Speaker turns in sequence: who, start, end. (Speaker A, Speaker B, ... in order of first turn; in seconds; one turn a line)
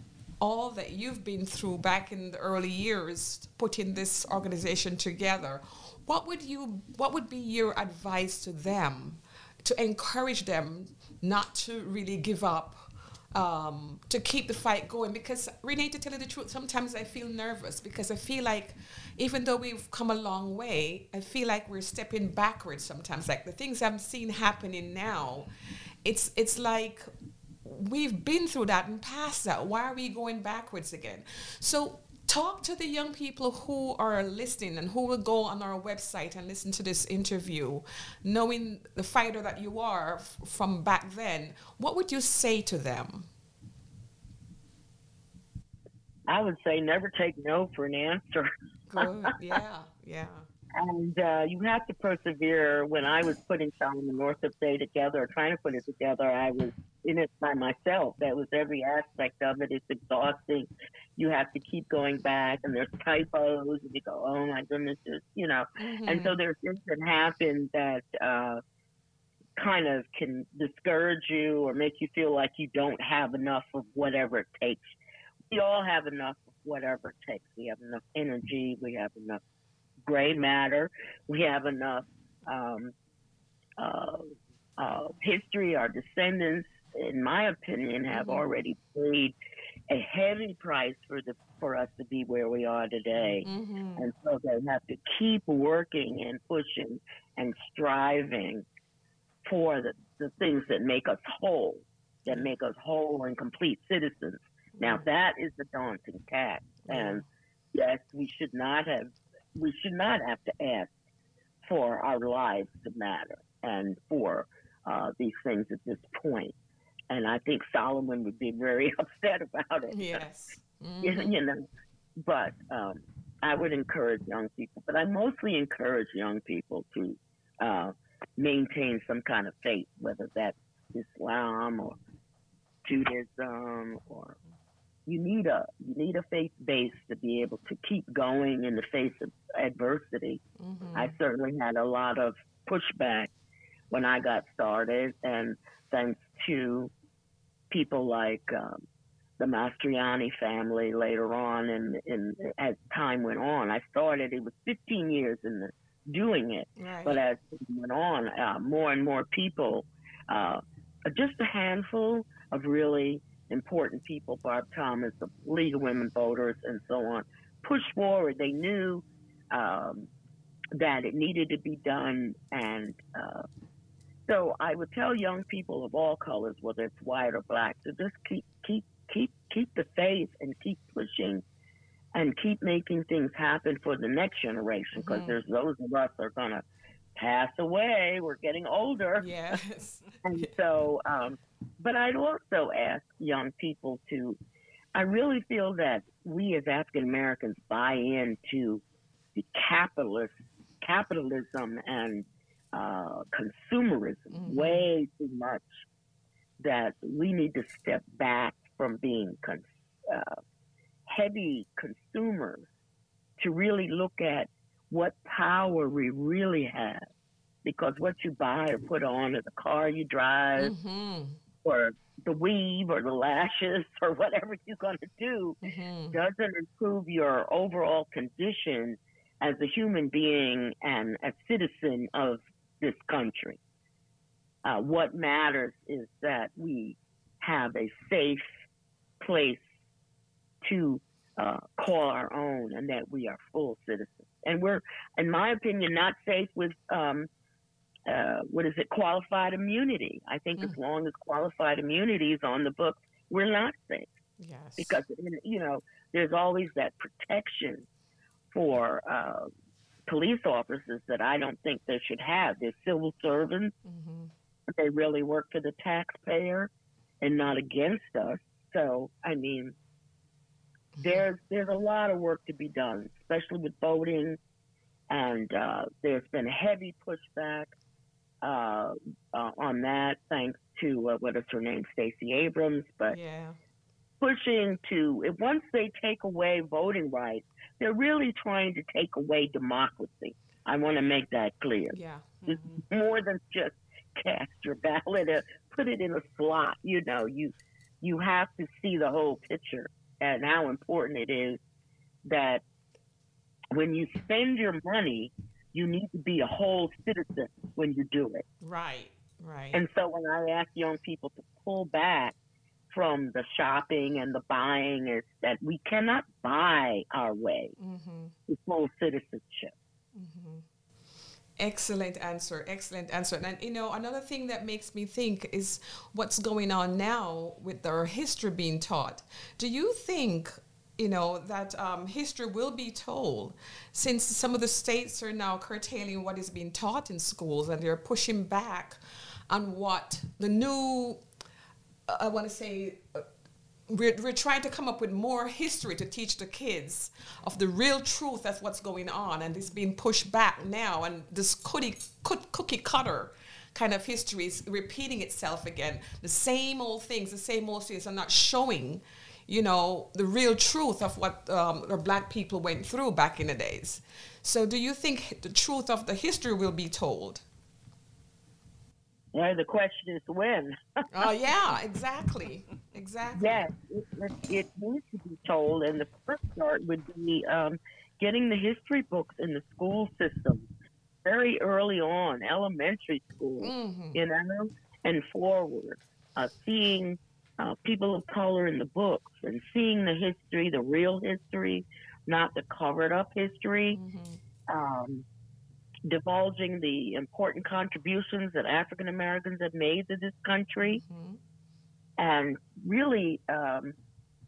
Speaker A: 0.4-25.5
Speaker A: 26.0-27.1
Speaker A: 27.6-43.3
Speaker B: 46.3-49.3
Speaker A: 48.9-50.5
Speaker B: 50.8-68.6
Speaker A: 65.8-66.3
Speaker B: 69.6-75.0
Speaker B: 75.5-79.4
Speaker B: 80.0-82.9
Speaker B: 83.8-84.2
Speaker B: 84.8-89.3
Speaker A: 88.1-88.4
Speaker B: 89.9-98.6
Speaker A: 93.2-94.1
Speaker B: 99.4-110.9
Speaker A: 104.8-105.0
Speaker A: 106.8-107.2
Speaker B: 111.6-116.5
Speaker B: 117.1-120.2
Speaker A: 119.9-121.3
Speaker B: 121.0-121.6
Speaker B: 122.2-132.0
Speaker B: 132.8-134.4
Speaker B: 135.1-140.4
Speaker A: 140.6-141.1
Speaker B: 140.9-143.3
Speaker B: 143.9-146.9
Speaker B: 147.7-148.8
Speaker B: 149.4-170.1
Speaker A: 156.8-157.2
Speaker B: 170.8-173.4
Speaker B: 174.3-181.4
Speaker B: 182.1-186.6
Speaker A: 184.9-185.4
Speaker B: 187.2-189.3
Speaker A: 189.2-190.5
Speaker B: 190.2-194.4
Speaker B: 194.9-198.8
Speaker B: 199.3-205.7
Speaker A: 204.3-204.8
Speaker B: 206.6-210.4
Speaker B: 211.1-212.7
Speaker B: 213.4-217.1
Speaker B: 217.6-220.7
Speaker A: 220.6-221.4
Speaker B: 221.6-225.6
Speaker A: 225.6-226.2
Speaker B: 226.1-233.6
Speaker B: 234.6-238.5
Speaker B: 239.2-239.6
Speaker B: 240.6-247.3
Speaker B: 248.1-254.1
Speaker A: 254.4-255.0
Speaker B: 254.8-257.9
Speaker B: 258.5-259.5
Speaker B: 260.1-263.7
Speaker A: 263.8-264.3
Speaker B: 264.7-266.7
Speaker B: 267.2-269.7
Speaker A: 271.0-271.2
Speaker B: 271.0-274.4
Speaker B: 275.1-277.7
Speaker B: 278.4-283.2
Speaker A: 283.1-283.6
Speaker B: 284.2-301.6
Speaker A: 291.9-292.8
Speaker B: 302.2-302.6
Speaker B: 303.7-308.4
Speaker A: 308.6-309.8
Speaker B: 309.7-312.4
Speaker B: 312.9-317.7
Speaker A: 317.8-318.3
Speaker B: 318.5-319.7
Speaker A: 320.1-320.6
Speaker A: 321.6-339.0
Speaker A: 339.5-341.2
Speaker A: 342.1-343.3
Speaker A: 343.9-367.4
Speaker B: 369.3-370.8
Speaker A: 371.1-373.6
Speaker B: 373.4-380.6
Speaker B: 381.2-394.0
Speaker A: 383.6-384.2
Speaker A: 393.9-394.4
Speaker B: 394.7-395.2
Speaker B: 396.1-401.0
Speaker A: 400.9-401.4
Speaker B: 402.2-403.9